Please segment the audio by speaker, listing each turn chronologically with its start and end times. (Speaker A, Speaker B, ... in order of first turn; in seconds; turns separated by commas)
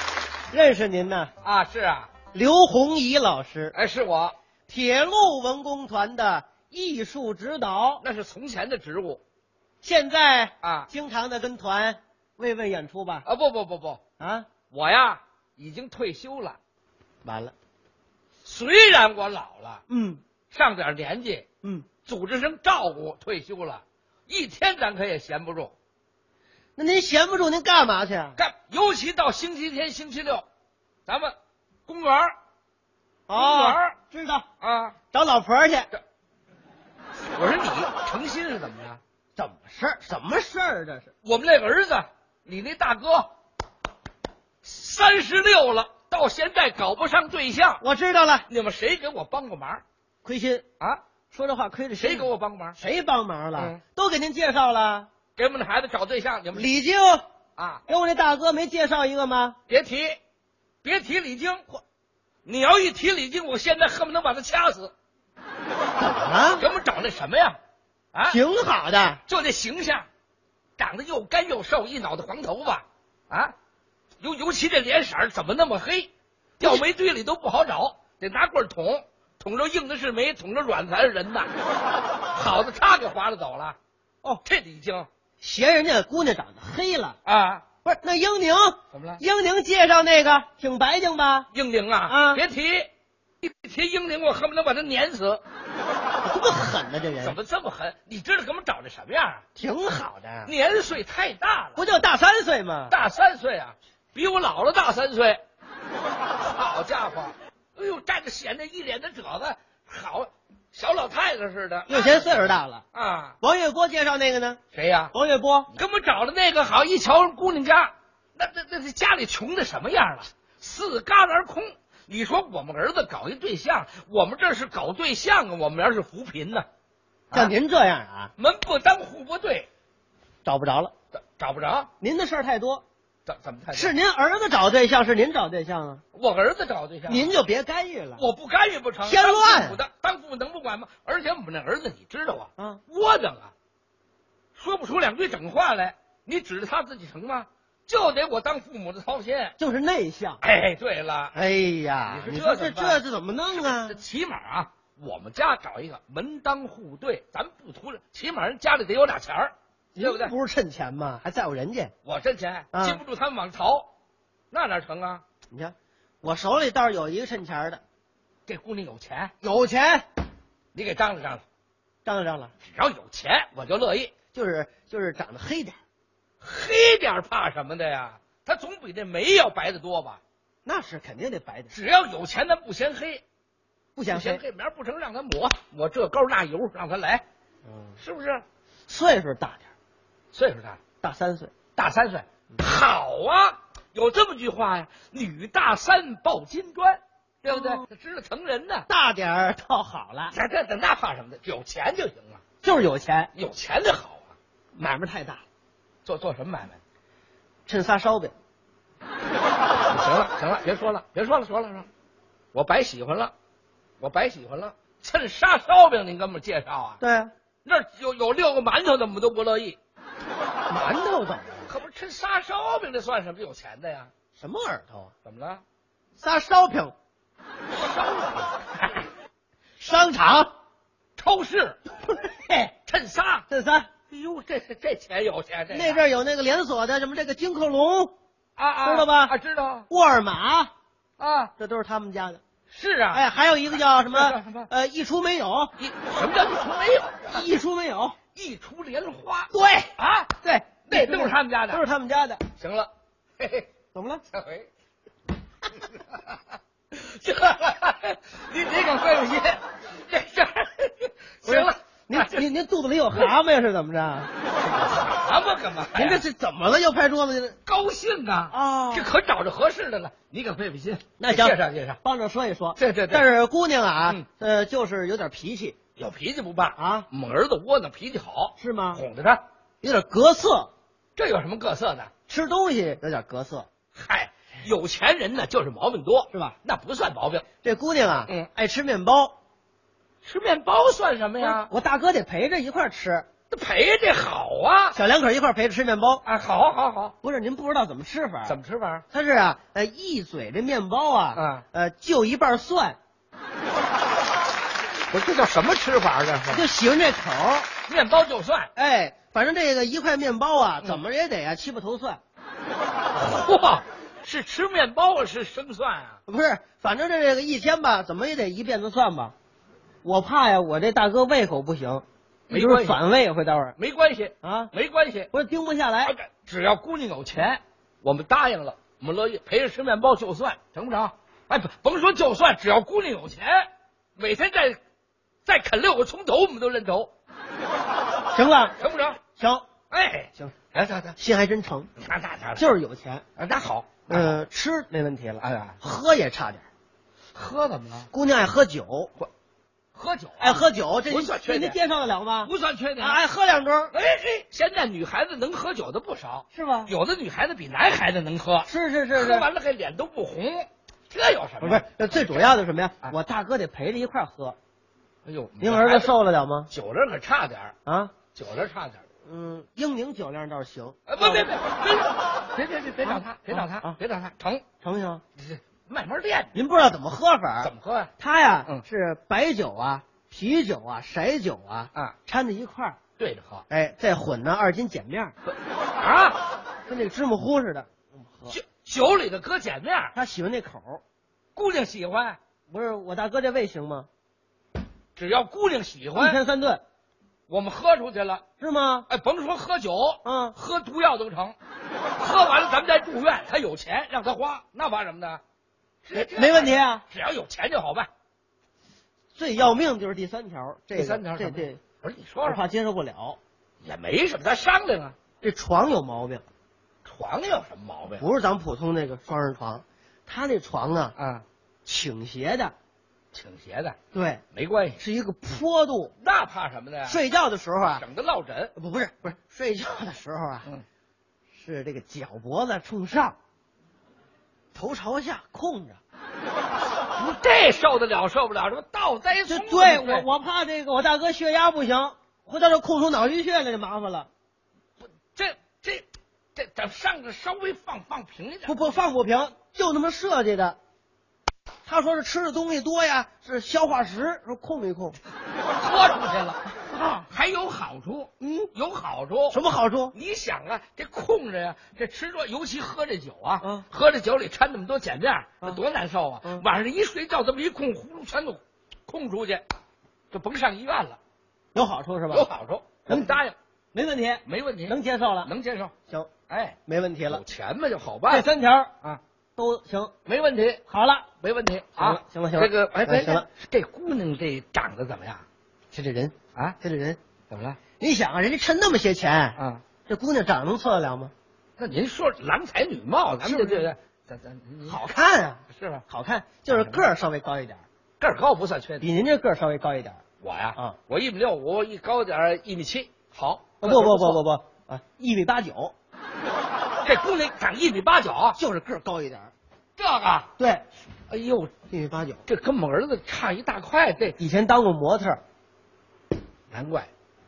Speaker A: 0.5-1.3, Speaker B: 1.4-2.1, Speaker A: 2.3-3.7, Speaker B: 3.7-4.3, Speaker A: 4.7-8.0, Speaker B: 8.0-9.2, Speaker A: 9.8-13.2, Speaker B: 10.6-10.9, Speaker B: 13.2-14.0, Speaker A: 14.2-14.5, Speaker B: 14.7-16.6, Speaker A: 17.2-17.5, Speaker B: 18.4-19.8, Speaker A: 19.9-20.2, Speaker B: 20.5-21.4, Speaker A: 21.6-21.9, Speaker B: 22.0-25.7, Speaker A: 26.8-28.4, Speaker B: 28.4-30.4, Speaker B: 31.1-31.3, Speaker B: 31.9-32.4, Speaker A: 33.3-34.5, Speaker B: 33.3-34.0, Speaker B: 34.6-35.0, Speaker A: 35.1-35.9, Speaker B: 37.2-39.0, Speaker A: 39.4-41.1, Speaker B: 41.2-43.3, Speaker B: 44.6-47.8, Speaker A: 47.8-48.5, Speaker B: 48.5-49.8, Speaker A: 50.2-50.6, Speaker A: 51.3-55.1, Speaker B: 52.0-52.8, Speaker B: 53.5-53.8, Speaker B: 55.4-56.7, Speaker A: 56.5-57.2, Speaker B: 57.5-57.8, Speaker A: 57.9-59.5, Speaker B: 59.7-60.2, Speaker B: 60.8-61.6, Speaker B: 62.4-64.9, Speaker A: 66.0-66.7, Speaker B: 66.6-67.6, Speaker B: 68.1-68.4, Speaker A: 68.3-69.2, Speaker B: 69.2-70.1, Speaker B: 70.8-73.5, Speaker B: 74.2-81.5, Speaker B: 82.3-83.8, Speaker B: 84.4-85.1, Speaker A: 85.4-87.2, Speaker B: 87.2-87.7, Speaker A: 87.8-91.5, Speaker B: 88.9-89.2, Speaker B: 91.5-95.4, Speaker A: 92.0-92.4, Speaker A: 96.2-97.4, Speaker B: 97.2-99.4, Speaker A: 99.5-100.5, Speaker B: 100.4-101.9, Speaker A: 101.8-103.0, Speaker B: 102.9-105.4, Speaker B: 106.2-113.4, Speaker A: 111.9-112.8, Speaker A: 113.4-114.6, Speaker B: 114.7-115.1, Speaker A: 115.1-115.7, Speaker B: 115.7-126.7, Speaker B: 127.3-127.5, Speaker A: 127.3-128.3, Speaker B: 128.4-129.7, Speaker A: 130.4-130.9, Speaker B: 131.1-131.9, Speaker A: 132.0-132.8, Speaker B: 133.2-133.9, Speaker A: 133.7-136.0, Speaker B: 136.1-137.3, Speaker A: 137.1-138.2, Speaker B: 138.2-143.5, Speaker A: 139.0-139.8, Speaker A: 142.6-142.8, Speaker B: 144.5-149.6, Speaker A: 149.6-150.4, Speaker B: 150.4-151.4, Speaker A: 151.3-154.0, Speaker B: 152.1-160.3, Speaker A: 159.9-161.9, Speaker B: 162.0-163.9, Speaker A: 162.7-163.0, Speaker B: 164.5-165.2, Speaker A: 165.5-167.8, Speaker B: 168.5-169.3, Speaker A: 169.4-170.1, Speaker B: 170.7-171.4, Speaker A: 172.0-172.5, Speaker B: 172.6-174.2, Speaker A: 174.3-175.8, Speaker B: 176.4-180.2, Speaker A: 180.6-181.8, Speaker B: 181.7-183.2, Speaker A: 183.9-184.4, Speaker B: 184.1-187.2, Speaker A: 187.7-188.0, Speaker B: 188.0-188.4, Speaker A: 188.9-189.7, Speaker B: 190.3-190.8, Speaker A: 191.0-191.6, Speaker B: 191.7-198.9, Speaker A: 197.5-197.8, Speaker A: 198.9-200.3, Speaker B: 200.3-202.4, Speaker A: 202.6-203.3, Speaker B: 203.3-204.3, Speaker A: 204.8-205.4, Speaker B: 206.0-206.8, Speaker A: 207.7-208.3, Speaker B: 209.8-211.9, Speaker B: 212.5-213.3, Speaker B: 214.0-217.0, Speaker A: 217.0-217.3, Speaker B: 217.6-219.8, Speaker A: 220.7-221.7, Speaker B: 221.7-224.1, Speaker A: 224.4-225.1, Speaker B: 225.2-225.6, Speaker A: 226.2-226.9, Speaker B: 227.7-229.1, Speaker A: 229.8-230.5, Speaker B: 231.2-231.9, Speaker B: 232.4-233.4, Speaker A: 233.5-233.9, Speaker B: 234.1-236.0, Speaker A: 235.7-238.1, Speaker B: 238.6-239.9, Speaker A: 238.8-239.3, Speaker A: 239.9-240.7, Speaker B: 241.2-241.5, Speaker A: 241.6-242.4, Speaker B: 242.7-244.7, Speaker A: 243.1-245.7, Speaker B: 245.8-247.5, Speaker A: 247.3-248.2, Speaker B: 248.3-251.8, Speaker A: 249.5-249.9, Speaker A: 250.4-252.4, Speaker B: 252.5-253.7, Speaker A: 253.9-254.2, Speaker B: 254.3-254.7, Speaker B: 255.7-256.4, Speaker B: 256.9-262.4, Speaker A: 261.4-264.3, Speaker B: 264.5-266.2, Speaker A: 265.9-267.6, Speaker B: 267.6-272.0, Speaker A: 268.5-269.1, Speaker A: 271.2-275.8, Speaker B: 272.8-273.3, Speaker B: 275.9-279.4, Speaker A: 276.8-277.1, Speaker A: 278.6-279.0, Speaker A: 279.8-280.7, Speaker B: 281.1-282.1, Speaker A: 282.3-283.7, Speaker B: 283.9-287.4, Speaker A: 286.3-286.6, Speaker A: 287.6-289.3, Speaker B: 290.2-291.7, Speaker A: 291.4-293.3, Speaker B: 293.5-295.0, Speaker A: 294.9-296.2, Speaker B: 296.2-297.1, Speaker A: 297.2-298.5, Speaker B: 298.4-299.1, Speaker A: 299.1-303.0, Speaker B: 301.3-301.6, Speaker B: 305.1-306.7, Speaker A: 306.5-307.7, Speaker B: 307.8-308.7, Speaker A: 308.7-312.2, Speaker B: 313.1-316.2, Speaker A: 316.3-319.3, Speaker A: 320.0-323.7, Speaker B: 322.5-323.0, Speaker B: 323.8-325.3, Speaker A: 324.4-324.7, Speaker A: 325.3-326.1, Speaker B: 326.0-334.8, Speaker B: 335.4-337.1, Speaker A: 338.3-338.8, Speaker B: 338.8-339.2, Speaker A: 339.3-339.7, Speaker B: 339.9-341.1, Speaker A: 341.1-341.9, Speaker B: 342.0-342.7, Speaker A: 342.5-343.2, Speaker B: 343.4-344.4, Speaker A: 344.1-346.6, Speaker B: 345.4-345.8, Speaker B: 347.3-348.1, Speaker A: 348.1-349.1, Speaker B: 349.9-351.8, Speaker A: 350.4-353.9, Speaker B: 352.4-353.2, Speaker B: 353.9-363.1, Speaker A: 356.5-356.9, Speaker A: 358.6-359.5, Speaker A: 361.6-364.6, Speaker B: 365.2-366.1, Speaker A: 365.6-366.7, Speaker B: 366.7-369.0, Speaker A: 367.9-368.2, Speaker A: 369.2-371.5, Speaker B: 371.1-374.6, Speaker A: 373.0-374.0, Speaker A: 374.8-375.2, Speaker B: 375.4-376.6, Speaker A: 376.5-383.0, Speaker B: 377.6-378.1, Speaker B: 383.2-383.6, Speaker A: 383.7-385.3, Speaker B: 385.5-386.4, Speaker A: 386.9-388.6, Speaker B: 388.5-390.1, Speaker A: 390.1-391.0, Speaker B: 391.5-392.4, Speaker A: 392.7-394.1, Speaker B: 395.1-396.4, Speaker A: 396.1-396.8, Speaker B: 397.5-398.4, Speaker A: 398.6-399.1, Speaker B: 399.1-401.6, Speaker A: 400.2-400.6, Speaker B: 402.2-405.4, Speaker B: 406.0-408.1, Speaker A: 406.2-407.0, Speaker A: 409.3-411.8, Speaker B: 410.9-412.6, Speaker A: 412.4-413.4, Speaker B: 413.8-415.1, Speaker A: 415.4-416.4, Speaker B: 417.0-418.3, Speaker A: 418.2-421.1, Speaker B: 421.1-421.4, Speaker A: 421.9-422.7, Speaker B: 423.3-424.0, Speaker A: 424.1-424.4, Speaker B: 424.5-425.0, Speaker A: 425.0-426.1, Speaker B: 426.2-427.2, Speaker A: 427.0-428.0, Speaker B: 427.9-428.7, Speaker A: 428.8-430.7, Speaker A: 431.5-433.4, Speaker A: 434.7-436.0, Speaker B: 437.1-440.3, Speaker A: 439.4-444.3, Speaker B: 445.0-448.9, Speaker A: 448.6-450.8, Speaker A: 451.9-455.2, Speaker B: 455.7-459.6, Speaker A: 458.4-458.7, Speaker A: 459.5-460.1, Speaker B: 460.1-469.6, Speaker A: 463.6-463.9, Speaker B: 470.3-471.2, Speaker A: 471.7-472.5, Speaker B: 472.3-473.6, Speaker A: 473.1-473.3, Speaker A: 473.9-475.5, Speaker B: 474.4-475.9, Speaker B: 476.5-478.5, Speaker A: 476.9-477.4, Speaker A: 478.3-478.9, Speaker A: 479.6-480.1, Speaker B: 480.2-480.8, Speaker A: 480.9-481.3, Speaker B: 481.4-485.4, Speaker A: 482.0-483.5, Speaker A: 485.9-487.2, Speaker B: 487.5-487.9, Speaker A: 488.0-491.3, Speaker B: 489.5-489.9, Speaker B: 491.8-495.1, Speaker A: 493.4-493.9, Speaker A: 494.9-497.8, Speaker B: 495.7-496.0, Speaker B: 496.6-497.1, Speaker B: 498.2-499.1, Speaker A: 499.0-500.2, Speaker B: 500.4-504.4, Speaker A: 503.8-505.9, Speaker B: 507.0-508.6, Speaker A: 508.6-509.5, Speaker B: 510.0-510.5, Speaker A: 510.6-510.8, Speaker B: 511.3-511.7, Speaker A: 511.9-512.4, Speaker B: 512.5-514.4, Speaker A: 514.4-515.4, Speaker B: 516.7-517.1